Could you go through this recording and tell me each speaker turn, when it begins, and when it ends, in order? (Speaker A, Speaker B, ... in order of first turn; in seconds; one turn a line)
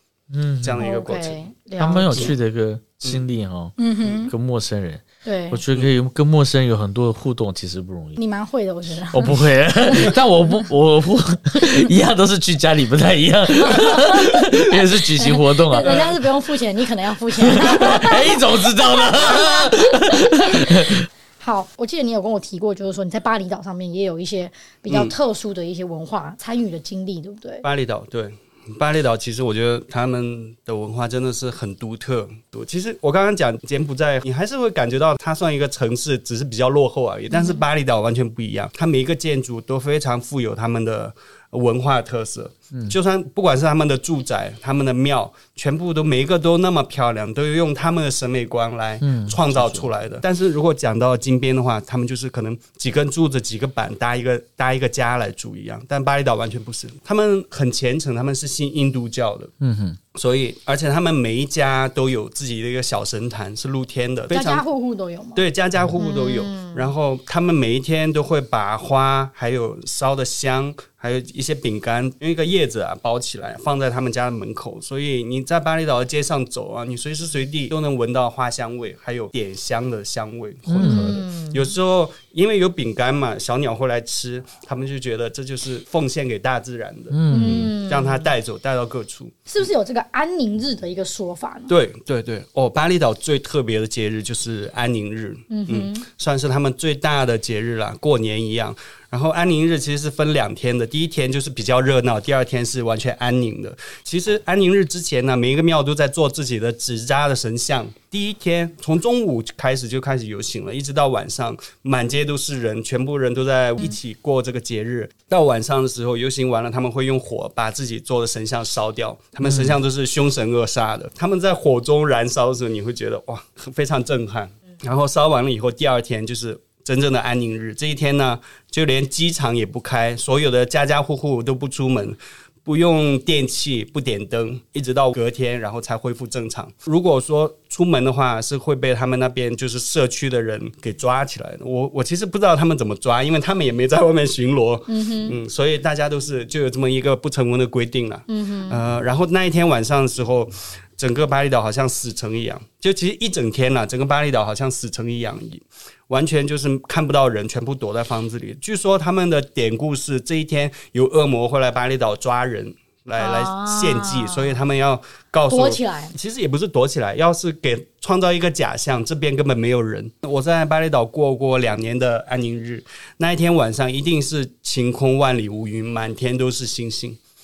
Speaker A: 0.3-0.8
Speaker B: 0.6-1.4
Speaker C: 0.8-2.3
Speaker A: 1.8-8.2
Speaker C: 3.8-4.3
Speaker C: 5.2-5.6
Speaker C: 8.2-10.1
Speaker A: 9.1-16.1
Speaker C: 13.6-27.6
Speaker A: 17.4-21.0
Speaker B: 24.9-25.1
Speaker B: 27.6-59.5
Speaker C: 37.3-37.6
Speaker A: 49.0-49.9
Speaker A: 59.6-60.0
Speaker B: 60.1-64.6
Speaker C: 64.3-65.4
Speaker B: 65.3-89.5
Speaker C: 66.0-66.9
Speaker A: 80.7-81.2
Speaker C: 80.8-81.7
Speaker A: 87.1-87.7
Speaker C: 87.3-88.3
Speaker C: 89.5-91.7
Speaker B: 91.7-177.2
Speaker C: 95.5-96.0
Speaker A: 119.4-119.8
Speaker C: 144.9-145.4
Speaker C: 148.3-148.8
Speaker C: 163.2-164.6
Speaker C: 165.5-166.1